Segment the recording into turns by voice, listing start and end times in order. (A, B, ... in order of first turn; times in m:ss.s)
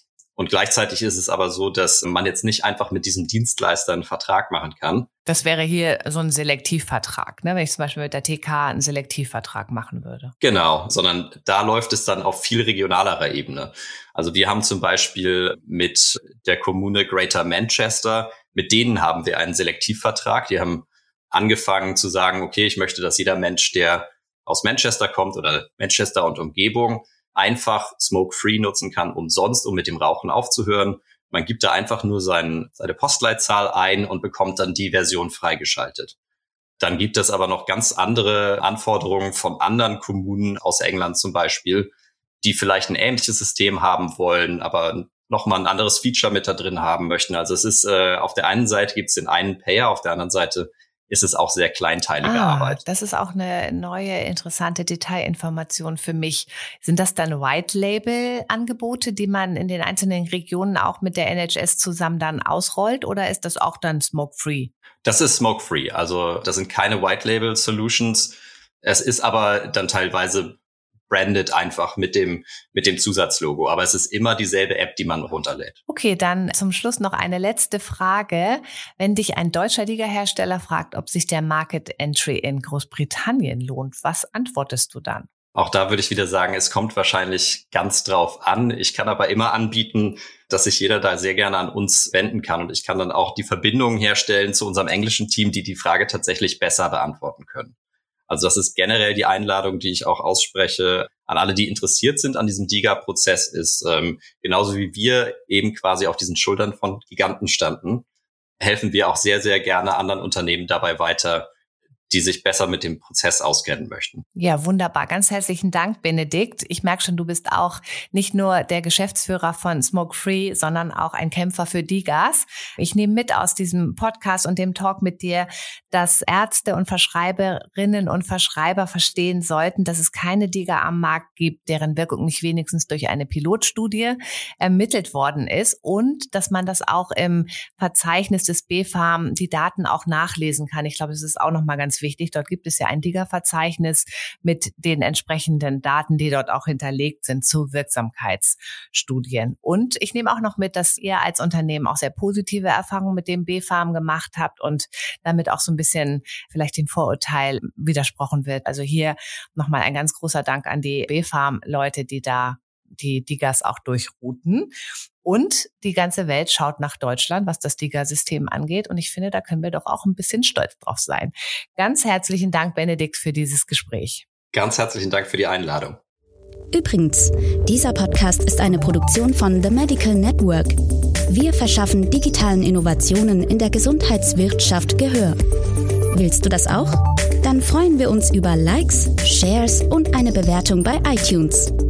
0:00.4-0:05.1 A
0:05.3-0:10.4 B
0:10.4-0:36.1 A
0:36.8-0:52.8 A
0:52.2-1:04.7 B
1:05.0-1:10.6 A
1:11.1-1:15.8 A
1:15.9-1:25.3 B
1:25.6-1:37.7 A
1:38.3-1:48.0 A
1:48.6-1:51.5 A
1:52.1-1:54.2 A
1:54.4-2:44.7 B
2:45.2-2:54.2 B
2:54.5-2:56.0 A
2:56.7-3:00.8 C
3:01.3-3:05.4 C
3:06.1-3:11.7 C